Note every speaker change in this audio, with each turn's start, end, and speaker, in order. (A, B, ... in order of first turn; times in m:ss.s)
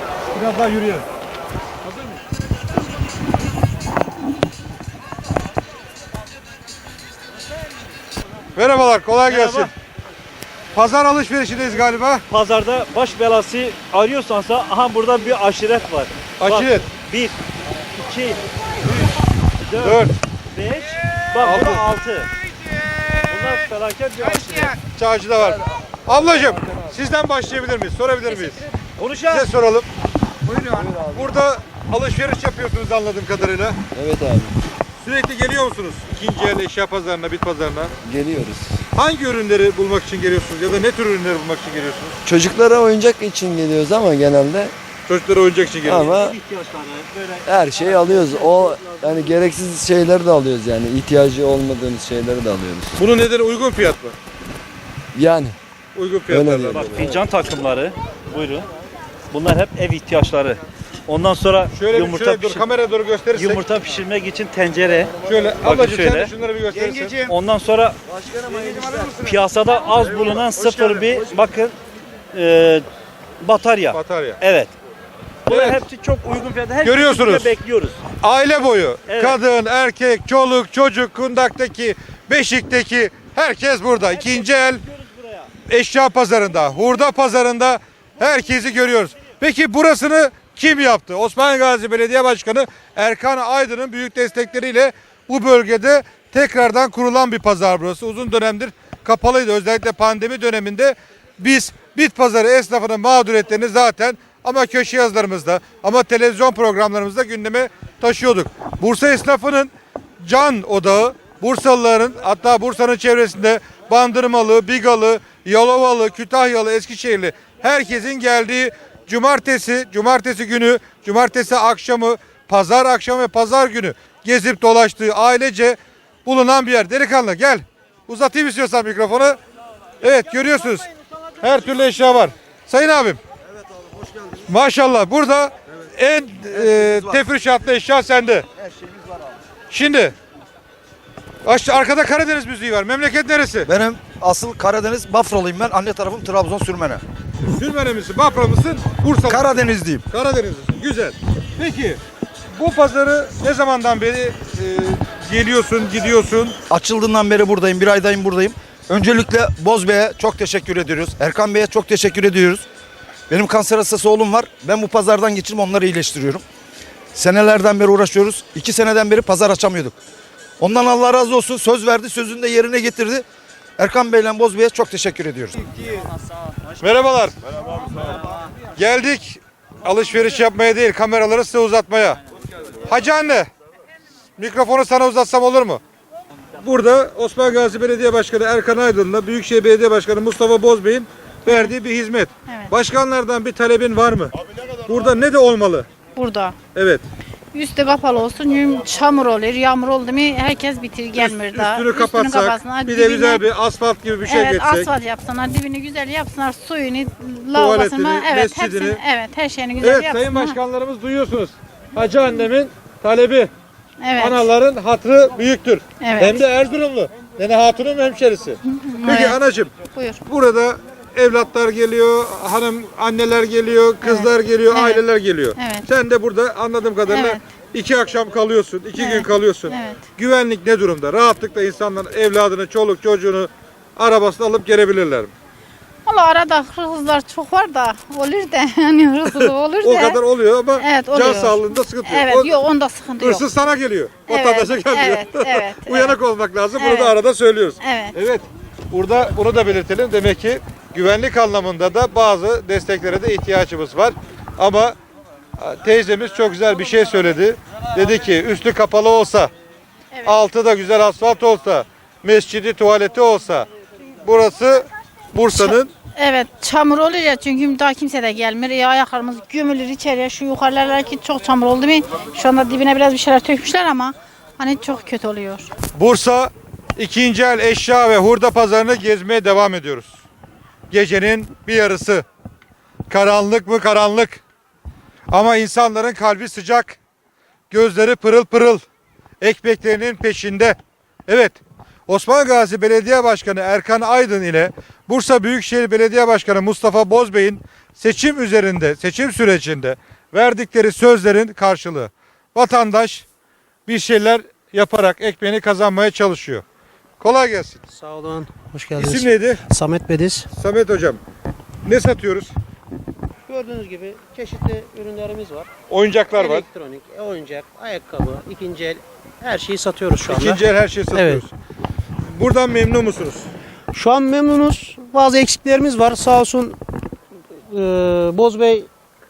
0:00.3-0:01.0 A
0:08.6-0:09.7 A
0:09.2-0:09.7 B
0:10.7-0:12.2 A
0:12.2-0:17.4 B
0:16.4-0:16.9 A
0:18.0-0:18.4 B
0:19.7-0:22.3 B
0:19.8-0:20.1 A
0:21.4-0:21.9 A
0:22.9-0:23.2 A
0:23.3-0:24.8 B
0:24.4-0:28.7 A
0:29.0-0:29.5 B
0:29.3-0:29.9 A
0:30.5-0:31.3 C
0:30.5-0:33.8 A
0:33.9-0:34.6 C
0:35.0-0:37.9 A
0:38.0-0:38.8 C
0:38.9-0:42.2 A
0:42.2-0:44.7 C
0:45.1-0:46.2 A
0:45.8-0:46.4 C
0:46.1-0:49.4 B
0:47.4-0:53.0 C
0:53.0-0:54.2 A
0:55.1-0:55.6 C
0:56.0-0:57.1 A
0:56.3-0:57.1 C
0:56.7-0:58.7 B
0:59.3-1:02.7 B
1:01.7-1:03.6 A
1:03.3-1:06.3 B
1:05.2-1:07.2 A
1:07.0-1:07.3 D
1:07.2-1:11.8 B
1:12.3-1:12.9 B
1:13.4-1:14.7 B
1:13.9-1:14.4 A
1:15.5-1:18.0 B
1:15.5-1:15.8 A
1:16.8-1:17.5 A
1:18.2-1:24.8 A
1:19.1-1:19.4 B
1:24.1-1:25.5 B
1:25.7-2:09.4 A
2:10.0-2:10.9 A
2:11.4-2:13.2 A
2:14.5-2:18.4 A
2:16.5-2:17.2 D
2:19.7-2:20.1 A
2:21.4-2:23.7 A
2:23.6-2:27.0 D
2:27.4-2:32.0 A
2:29.3-2:30.0 D
2:32.6-2:36.6 A
2:36.7-2:42.7 D
2:43.3-2:46.4 D
2:47.1-2:50.0 D
2:50.6-2:53.2 D
2:53.8-2:55.6 D
2:56.8-2:57.3 A
2:58.8-3:02.2 A
3:02.9-3:03.5 A
3:04.4-3:05.8 A
3:06.6-3:14.3 A
3:11.5-3:11.7 E
3:14.9-3:15.9 A
3:16.2-3:16.6 E
3:16.7-3:17.0 A
3:17.5-3:23.4 E
3:21.2-3:24.9 A
3:24.3-3:30.6 E
3:27.6-3:29.0 A
3:29.8-3:33.5 A
3:34.0-3:34.5 E
3:34.2-3:39.7 A
3:36.0-3:36.4 E
3:38.7-3:39.4 E
3:39.9-3:40.2 E
3:40.2-3:55.3 A
3:44.0-3:45.0 E
3:45.6-3:45.9 E
3:47.1-3:47.4 E
3:49.0-3:50.0 E
3:56.1-4:00.2 E
3:59.3-4:02.6 A
4:00.8-4:03.5 E
4:03.2-4:15.0 A
4:04.3-4:06.2 E
4:06.8-4:07.2 E
4:07.8-4:08.2 E
4:15.6-4:19.5 A
4:20.1-4:20.4 E
4:20.2-4:23.7 A
4:24.2-4:25.9 A
4:25.6-4:35.7 E
4:35.9-4:40.2 A
4:40.9-4:42.2 A
4:43.1-4:44.4 A
4:45.3-4:47.0 A
4:47.7-4:48.8 A
4:49.4-5:03.3 A
5:03.9-5:06.6 A
5:07.2-5:07.8 A
5:07.9-5:10.5 F
5:09.0-5:09.6 A
5:10.5-5:11.2 A
5:11.8-5:12.5 A
5:13.5-5:15.7 F
5:15.9-5:16.7 A
5:16.3-5:20.6 F
5:20.2-5:21.5 A
5:21.1-5:21.4 F
5:22.3-5:23.5 A
5:23.9-5:26.8 F
5:27.7-5:28.9 F